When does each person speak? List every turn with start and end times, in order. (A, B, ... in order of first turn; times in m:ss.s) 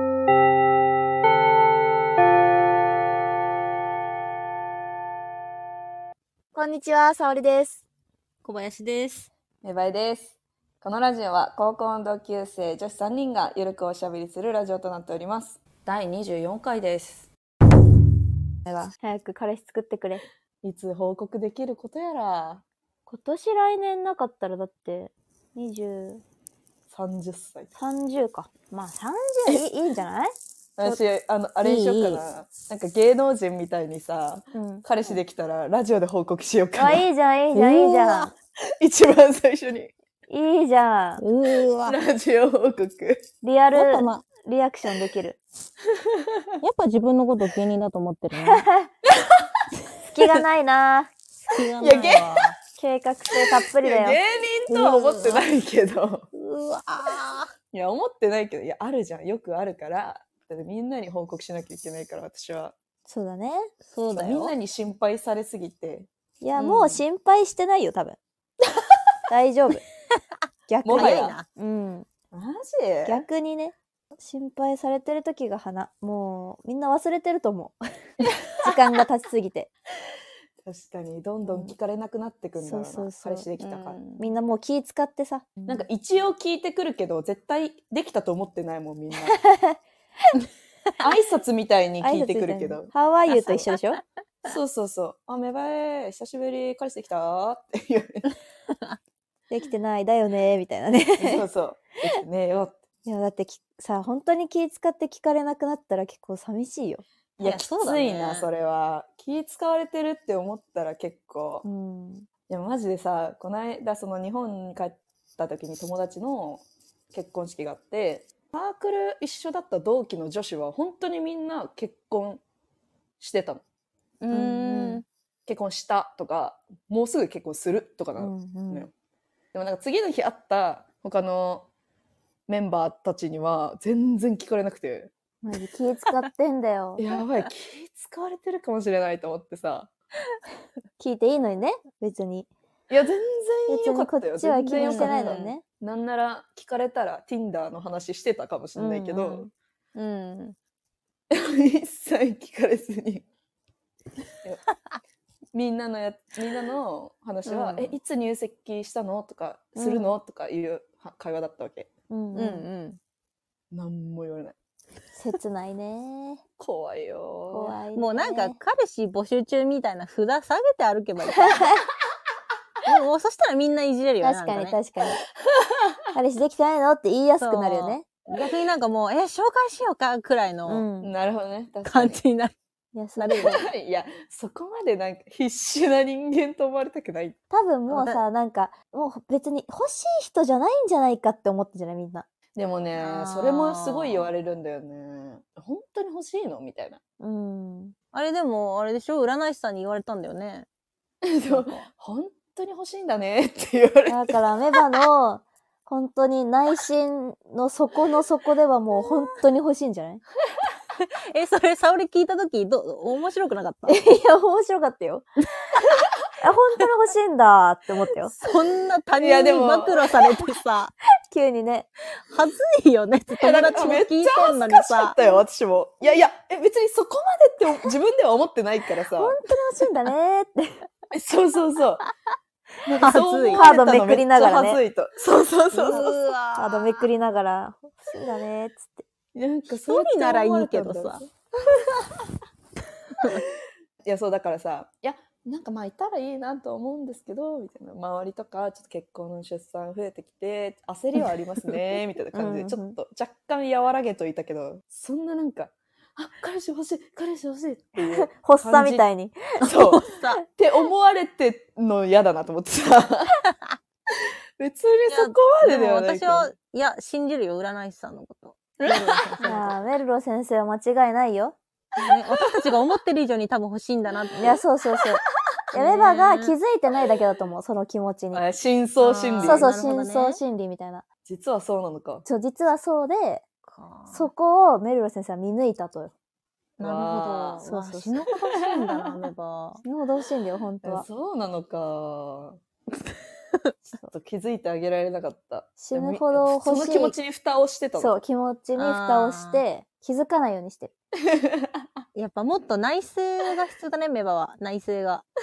0:06.6-0:07.8 A
0:08.5-0:09.2 B
0:09.6-0:17.3 C
0:18.7-0:20.2 A
0:20.6-0:22.6 C
0:23.1-0:26.2 A
0:26.9-0:27.7 C
0:27.8-0:31.0 A
0:30.8-0:37.1 C
0:31.6-0:32.2 B
0:34.5-0:34.8 A
0:36.8-0:38.3 A
0:37.5-0:38.3 B
0:38.8-0:39.9 C
0:40.3-0:41.2 A
0:41.2-0:42.0 B
0:41.8-0:43.3 C
0:43.4-0:45.4 A
0:43.7-0:44.2 B
0:46.2-0:46.4 C
0:46.6-0:48.7 B
0:48.4-0:48.9 A
0:49.1-0:49.4 C
0:50.1-0:51.1 A
0:51.5-0:52.6 B
0:51.8-0:52.5 C
0:52.8-0:54.2 A
0:53.8-0:56.3 C
0:54.7-0:55.5 B
0:56.3-0:57.5 B
0:57.7-1:02.7 C
1:03.1-1:03.7 A
1:03.8-1:04.5 B
1:04.1-1:06.1 C
1:06.4-1:08.2 A
1:06.6-1:07.0 B
1:09.3-1:09.9 A
1:10.7-1:12.1 A
1:10.8-1:11.4 C
1:10.9-1:11.5 B
1:12.3-1:13.2 C
1:13.0-1:17.8 A
1:18.6-1:19.7 A
1:20.6-1:24.0 C
1:21.5-1:21.7 A
1:22.6-1:23.5 A
1:23.6-1:24.4 B
1:24.2-1:25.9 A
1:25.7-1:29.4 C
1:29.3-1:29.8 A
1:31.0-1:32.9 C
1:32.0-1:34.0 A
1:33.3-1:33.6 B
1:34.4-1:38.3 C
1:39.5-1:41.4 A
1:41.2-1:42.8 C
1:43.0-1:47.0 A
1:47.4-1:51.7 C
1:47.4-1:48.5 B
1:51.6-1:52.3 A
1:52.5-2:02.4 C
2:03.2-2:03.6 C
2:04.2-2:05.0 B
2:04.3-2:05.0 A
2:05.5-2:08.9 C
2:08.2-2:08.9 A
2:09.5-2:11.7 C
2:12.5-2:15.1 C
2:15.4-2:17.0 A
2:17.0-2:19.9 C
2:21.0-2:22.5 A
2:22.9-2:29.5 C
2:23.7-2:25.6 A
2:24.7-2:25.6 B
2:28.8-2:29.5 A
2:30.0-2:30.6 B
2:31.3-2:33.2 C
2:35.5-2:41.9 C
2:37.4-2:38.0 B
2:39.8-2:40.2 A
2:42.1-2:42.7 A
2:42.3-2:43.0 B
2:43.7-2:44.6 C
2:45.2-2:46.4 A
2:46.6-2:47.8 C
2:47.5-2:48.6 A
2:48.0-2:51.8 B
2:52.8-2:54.8 B
2:54.2-2:55.2 A
2:56.1-2:58.1 A
2:57.4-3:00.8 B
3:00.7-3:01.1 A
3:01.0-3:02.2 C
3:01.8-3:02.5 B
3:02.9-3:03.7 A
3:03.2-3:03.6 B
3:03.4-3:07.4 C
3:07.5-3:12.3 A
3:07.9-3:08.2 B
3:12.6-3:17.0 C
3:13.0-3:14.4 B
3:17.2-3:18.0 A
3:18.1-3:20.7 B
3:21.2-3:24.4 C
3:21.5-3:21.8 B
3:24.1-3:30.2 A
3:31.0-3:34.0 B
3:33.9-3:35.3 A
3:36.4-3:38.4 A
3:38.4-3:40.9 B
3:39.2-3:40.2 C
3:41.3-3:41.9 A
3:42.3-3:45.2 B
3:43.4-3:49.4 C
3:45.2-3:45.4 A
3:49.1-3:50.9 A
3:51.1-3:52.0 C
3:52.8-3:56.2 C
3:53.0-3:53.6 B
3:53.5-3:54.8 A
3:55.7-3:57.0 B
3:56.6-3:59.0 A
3:59.4-4:01.3 C
3:59.9-4:01.2 B
4:04.0-4:19.1 C
4:12.3-4:13.0 A
4:18.0-4:19.4 A
4:19.6-4:20.4 B
4:19.7-4:20.0 C
4:20.6-4:23.4 C
4:24.6-4:26.5 C
4:25.1-4:29.8 B
4:28.8-4:29.3 C
4:29.4-4:31.6 A
4:32.0-4:34.6 B
4:34.4-4:35.2 A
4:35.7-4:38.4 A
4:35.8-4:36.6 B
4:38.3-4:39.7 C
4:39.0-4:40.4 B
4:39.4-4:41.1 A
4:41.2-4:42.2 C
4:42.2-4:43.4 A
4:43.6-4:44.3 B
4:44.1-4:46.1 A
4:46.8-4:47.7 C
4:46.8-4:49.8 B
4:47.6-4:48.2 A
4:49.8-4:51.0 A
4:50.8-4:52.6 C
4:54.1-4:58.2 C
4:55.8-4:57.2 A
4:58.0-5:00.9 A
4:58.8-4:59.6 B
5:02.2-5:05.3 B